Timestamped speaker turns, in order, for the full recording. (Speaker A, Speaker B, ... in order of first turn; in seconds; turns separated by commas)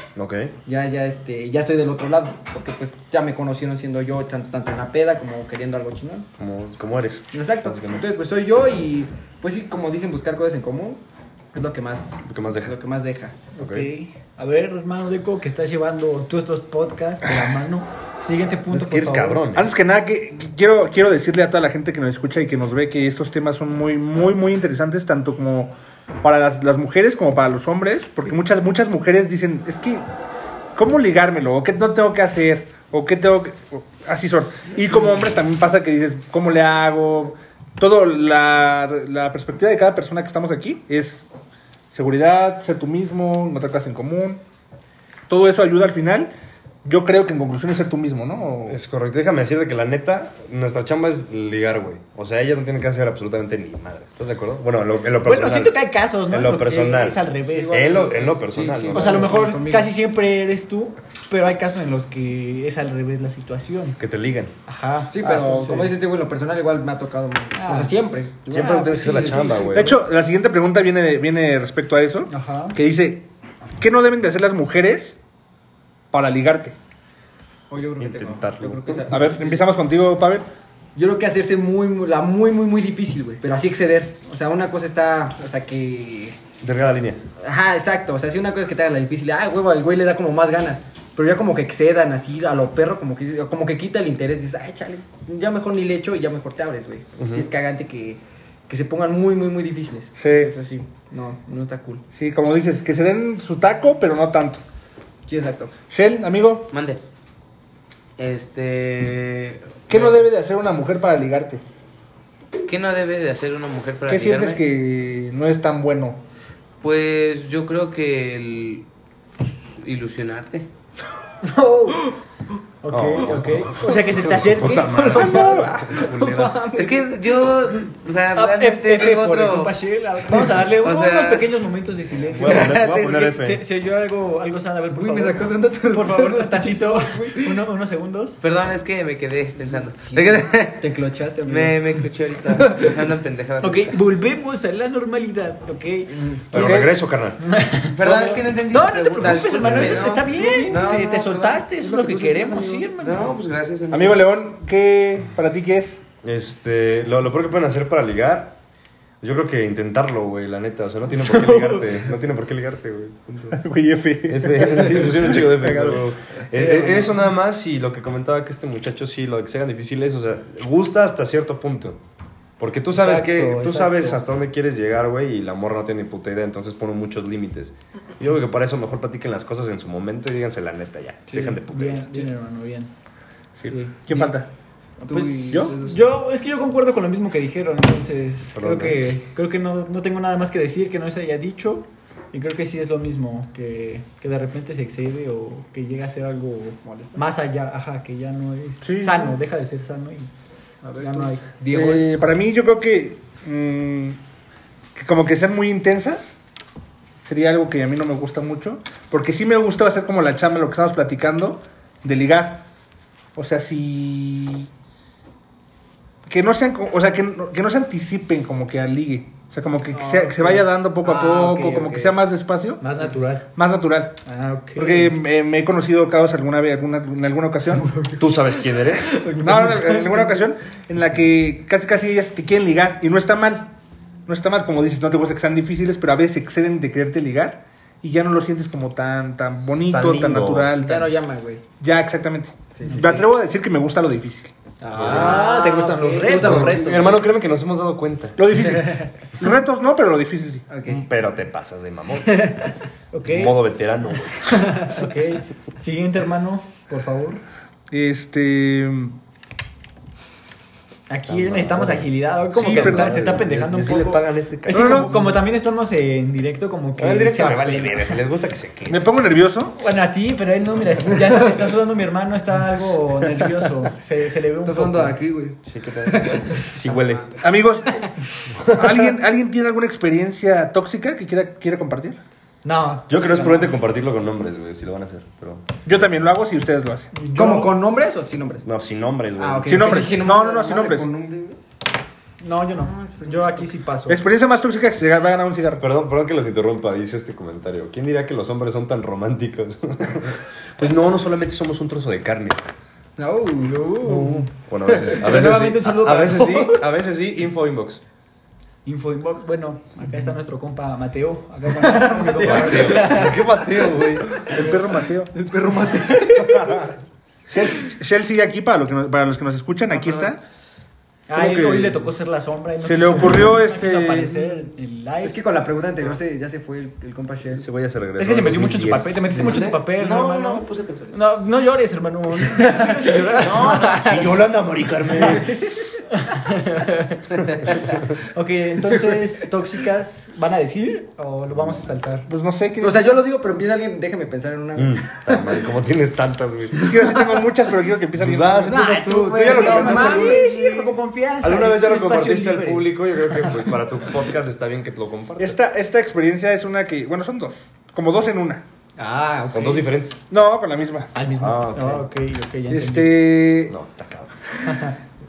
Speaker A: 0.2-0.6, Speaker B: 0.7-6.3, Speaker A: 6.4-8.1, Speaker B: 7.3-11.0, Speaker B: 11.5-13.4, Speaker A: 12.3-12.8, Speaker C: 13.6-19.4, Speaker A: 13.6-13.9, Speaker A: 18.7-19.7, Speaker D: 19.5-30.0, Speaker D: 30.8-41.3, Speaker D: 41.9-44.4, Speaker D: 45.3-46.3, Speaker D: 46.9-48.8, Speaker A: 48.7-59.5, Speaker C: 55.2-58.1, Speaker B: 57.4-59.9, Speaker C: 58.9-64.0, Speaker A: 64.0-64.5, Speaker C: 64.7-66.0, Speaker B: 65.1-69.9, Speaker C: 67.5-68.0, Speaker C: 68.5-69.7, Speaker A: 68.5-70.0, Speaker D: 69.7-73.3, Speaker C: 72.3-72.8, Speaker D: 73.8-75.2, Speaker D: 76.1-76.8, Speaker B: 77.7-79.7, Speaker A: 78.0-79.1, Speaker D: 79.1-80.5, Speaker B: 81.0-86.4, Speaker A: 86.6-87.2, Speaker B: 87.4-102.0, Speaker A: 97.2-97.5, Speaker D: 100.2-100.5, Speaker D: 102.1-104.6, Speaker B: 105.3-105.7, Speaker D: 105.9-106.7, Speaker E: 106.7-107.0, Speaker E: 108.2-110.2, Speaker D: 109.9-111.6, Speaker E: 112.7-114.6, Speaker D: 114.1-116.2, Speaker E: 116.8-118.9, Speaker E: 119.8-120.7, Speaker C: 121.4-122.1, Speaker C: 122.8-126.7, Speaker A: 122.9-126.8, Speaker D: 124.9-125.9, Speaker B: 125.4-127.1, Speaker E: 126.8-129.8, Speaker C: 128.3-138.4, Speaker E: 130.3-131.6, Speaker A: 132.3-133.6, Speaker E: 132.4-133.2, Speaker B: 134.9-137.6, Speaker E: 138.4-140.9, Speaker B: 140.8-141.8, Speaker E: 141.5-144.0, Speaker C: 143.6-146.2, Speaker B: 146.1-146.5, Speaker A: 146.5-147.5, Speaker D: 146.5-146.9, Speaker C: 147.4-153.3, Speaker E: 147.9-151.6, Speaker A: 149.4-150.1, Speaker B: 149.6-151.0, Speaker B: 151.7-152.9, Speaker E: 153.0-154.3, Speaker D: 153.9-156.0, Speaker A: 156.2-158.6, Speaker A: 159.2-163.6, Speaker D: 163.5-166.0, Speaker A: 164.3-172.0, Speaker C: 166.5-167.1, Speaker A: 172.6-182.2, Speaker C: 172.9-174.2, Speaker C: 181.3-182.9, Speaker D: 183.6-184.5, Speaker C: 183.7-184.3, Speaker C: 185.0-200.3, Speaker B: 185.1-186.0, Speaker D: 185.5-185.8, Speaker A: 188.6-189.0, Speaker B: 196.8-197.2, Speaker D: 198.8-199.4, Speaker B: 200.8-202.1, Speaker C: 201.0-201.5, Speaker D: 201.7-204.2, Speaker D: 204.9-206.4, Speaker D: 207.2-212.7, Speaker D: 213.3-214.7, Speaker D: 216.3-223.0, Speaker C: 219.9-222.2, Speaker C: 222.8-223.5, Speaker D: 223.6-224.2, Speaker C: 224.3-225.2, Speaker D: 224.8-227.9, Speaker A: 228.2-229.3, Speaker C: 229.1-230.3, Speaker D: 229.4-233.8, Speaker D: 234.3-241.1, Speaker A: 239.9-240.8, Speaker B: 240.8-241.6, Speaker D: 241.8-244.5, Speaker B: 242.8-243.2, Speaker C: 242.9-243.2, Speaker B: 244.8-247.2, Speaker A: 244.9-245.5, Speaker C: 245.0-247.0, Speaker A: 246.3-248.6, Speaker D: 248.4-250.7, Speaker B: 250.7-251.1, Speaker A: 250.9-252.6, Speaker C: 253.1-253.6, Speaker A: 253.2-254.9, Speaker C: 254.5-257.4, Speaker D: 257.9-259.2, Speaker C: 261.1-268.2, Speaker A: 261.3-265.3, Speaker D: 262.6-263.2, Speaker D: 264.7-265.1, Speaker A: 267.0-269.0, Speaker D: 268.9-269.8, Speaker C: 269.8-275.2, Speaker B: 274.6-276.7, Speaker A: 275.6-277.4, Speaker D: 277.4-278.1, Speaker A: 278.5-279.0, Speaker D: 278.7-282.2, Speaker C: 282.6-283.8, Speaker A: 283.1-286.3, Speaker D: 285.9-287.1, Speaker C: 287.1-287.7, Speaker B: 287.3-288.7, Speaker A: 288.6-290.1, Speaker B: 289.4-291.6, Speaker D: 289.6-291.1, Speaker C: 292.4-294.2, Speaker B: 292.8-293.8, Speaker D: 294.1-295.9, Speaker A: 295.8-302.7, Speaker B: 303.2-304.5, Speaker C: 304.0-304.5, Speaker A: 304.5-308.0, Speaker C: 305.1-306.8, Speaker C: 308.9-314.8, Speaker B: 311.8-313.2, Speaker A: 312.4-314.4, Speaker D: 314.4-315.3, Speaker B: 315.3-316.8, Speaker C: 316.2-316.6, Speaker D: 316.4-316.9, Speaker D: 317.5-320.4, Speaker C: 321.3-325.4, Speaker D: 321.3-322.0, Speaker D: 322.8-324.4, Speaker B: 325.2-327.7, Speaker A: 327.6-329.6, Speaker C: 328.2-334.3, Speaker E: 329.3-331.4, Speaker E: 333.4-334.3, Speaker A: 333.9-335.6, Speaker C: 335.2-342.3, Speaker D: 342.3-343.2, Speaker B: 342.8-345.4, Speaker A: 344.8-347.1, Speaker D: 346.8-348.8, Speaker A: 348.1-355.6, Speaker C: 348.7-353.7, Speaker B: 349.3-350.4, Speaker D: 349.5-350.3, Speaker D: 355.4-358.6, Speaker C: 359.0-359.9, Speaker A: 359.5-360.2, Speaker D: 360.3-361.1, Speaker C: 361.1-363.2, Speaker A: 361.4-362.1, Speaker D: 362.7-363.7, Speaker A: 363.7-364.3, Speaker C: 364.7-364.9